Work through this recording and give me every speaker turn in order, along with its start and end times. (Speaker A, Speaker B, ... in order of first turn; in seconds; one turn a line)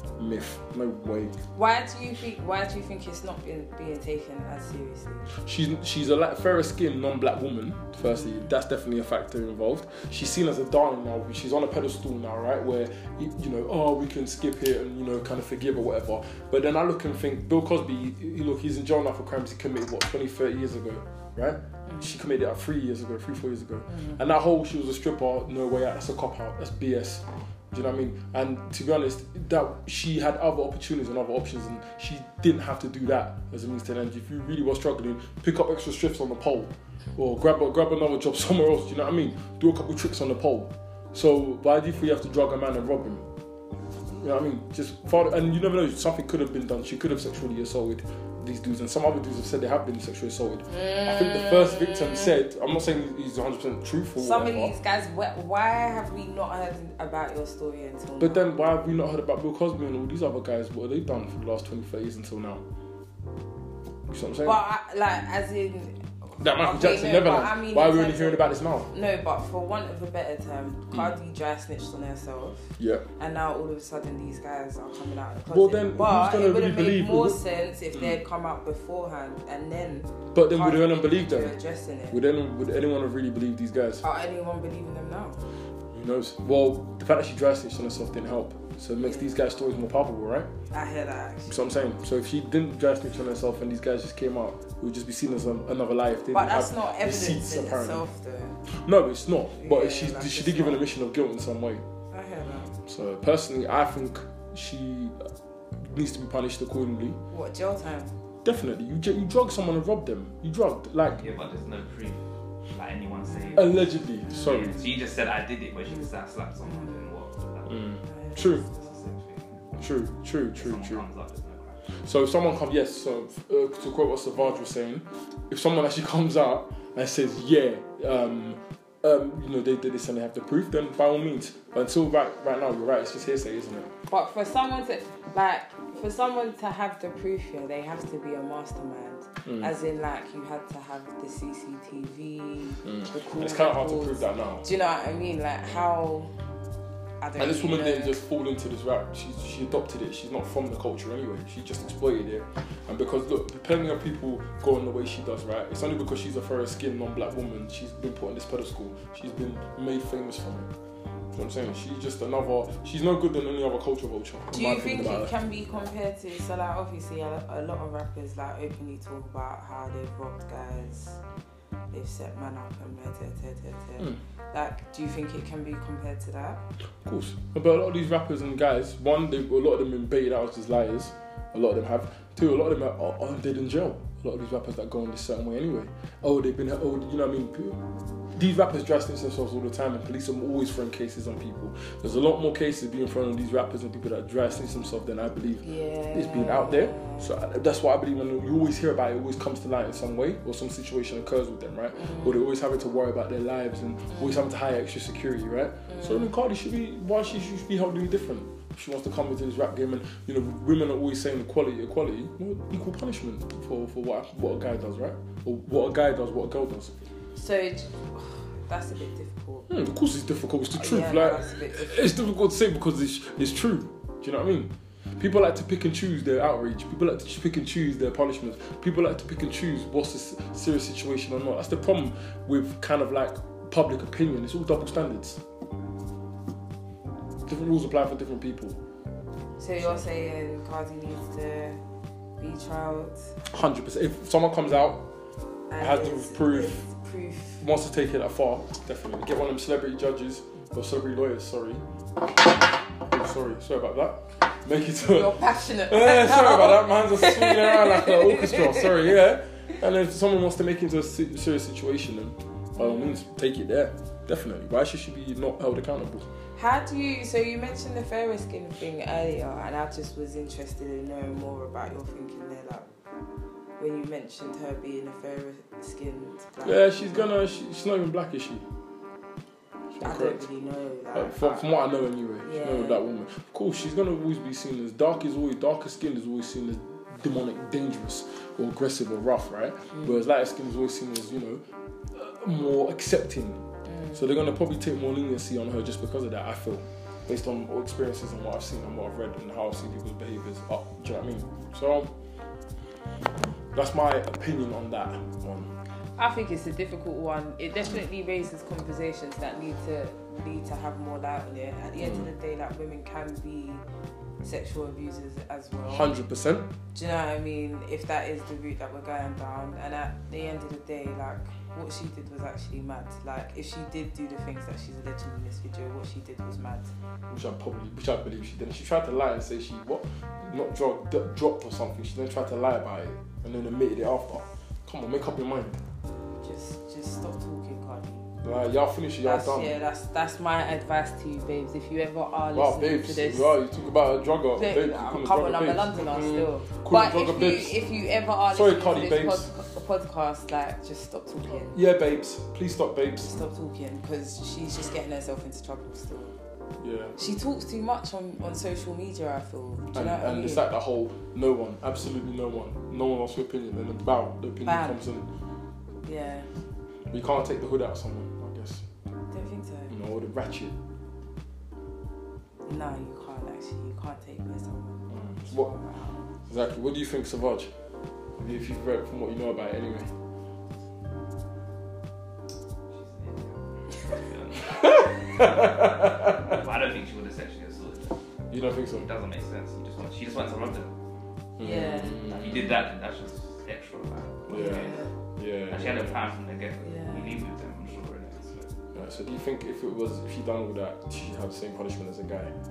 Speaker A: 0.2-1.4
Speaker B: 1.6-5.3
Speaker A: 5.3-43.3
Speaker B: 8.0-8.5
Speaker B: 21.9-22.1
Speaker B: 23.9-24.2
Speaker A: 44.1-54.7
Speaker B: 50.7-52.3
Speaker B: 54.2-58.6
Speaker A: 58.2-62.6
Speaker A: 64.1-64.6
Speaker B: 64.4-82.2
Speaker A: 66.4-68.9
Speaker A: 72.8-73.1
Speaker A: 75.5-77.4
Speaker A: 77.9-78.2
Speaker A: 80.3-81.5
Speaker A: 82.1-84.0
Speaker B: 84.0-85.4
Speaker A: 85.9-90.5
Speaker B: 89.0-89.4
Speaker B: 90.7-91.8
Speaker A: 91.5-98.1
Speaker B: 96.3-98.6
Speaker A: 98.7-101.8
Speaker B: 99.6-100.8
Speaker B: 102.1-102.8
Speaker A: 102.9-107.2
Speaker B: 107.3-108.1
Speaker A: 108.4-111.3
Speaker C: 111.2-117.8
Speaker B: 113.3-114.9
Speaker A: 113.6-114.8
Speaker B: 116.6-117.1
Speaker A: 117.7-118.6
Speaker B: 118.0-119.2
Speaker C: 119.2-119.8
Speaker A: 119.8-121.0
Speaker C: 120.5-122.0
Speaker A: 122.0-133.9
Speaker B: 134.1-146.3
Speaker A: 139.5-139.7
Speaker A: 142.8-144.7
Speaker B: 147.2-148.2
Speaker A: 147.4-160.7
Speaker A: 161.3-165.3
Speaker B: 164.5-171.2
Speaker B: 171.9-176.7
Speaker A: 177.1-187.8
Speaker A: 188.3-216.9
Speaker B: 195.6-197.3
Speaker B: 201.9-202.4
Speaker B: 204.1-204.4
Speaker B: 205.9-206.3
Speaker B: 217.4-219.7
Speaker A: 219.7-235.4
Speaker B: 220.7-222.1
Speaker A: 237.5-238.8
Speaker B: 239.6-241.8
Speaker A: 239.8-240.1
Speaker B: 242.4-243.4
Speaker A: 243.4-245.1
Speaker B: 245.7-247.6
Speaker A: 245.8-246.8
Speaker A: 247.6-251.8
Speaker A: 253.0-266.3
Speaker B: 255.0-259.1
Speaker B: 262.8-263.2
Speaker B: 266.6-272.9
Speaker B: 273.8-277.4
Speaker A: 276.6-278.6
Speaker A: 279.9-280.4
Speaker B: 280.0-281.7
Speaker A: 281.1-302.1
Speaker B: 282.4-283.0
Speaker B: 293.9-294.2
Speaker A: 303.7-305.7
Speaker B: 306.2-313.8
Speaker A: 312.0-312.3
Speaker B: 314.4-316.1
Speaker A: 315.9-316.7
Speaker B: 316.9-326.9
Speaker A: 327.3-335.8
Speaker B: 336.4-338.3
Speaker A: 338.4-339.8
Speaker B: 339.2-343.6
Speaker A: 342.5-347.8
Speaker B: 344.6-351.8
Speaker A: 348.5-349.5
Speaker A: 351.7-353.4
Speaker B: 353.2-356.4
Speaker A: 356.8-357.2
Speaker B: 357.2-360.6
Speaker A: 359.9-365.3
Speaker B: 364.6-365.0
Speaker B: 366.0-366.5
Speaker A: 367.1-368.8
Speaker B: 369.3-369.9
Speaker A: 369.9-370.8
Speaker B: 372.7-376.3
Speaker A: 375.1-375.7
Speaker A: 376.5-377.7
Speaker A: 378.4-380.1
Speaker C: 382.9-388.2
Speaker A: 384.8-386.6
Speaker A: 388.5-389.1
Speaker C: 388.9-390.9
Speaker A: 391.6-392.8
Speaker B: 391.6-392.3
Speaker C: 392.1-395.1
Speaker A: 394.5-396.2
Speaker B: 394.5-395.1
Speaker C: 395.7-398.8
Speaker B: 396.8-397.4
Speaker A: 398.9-402.5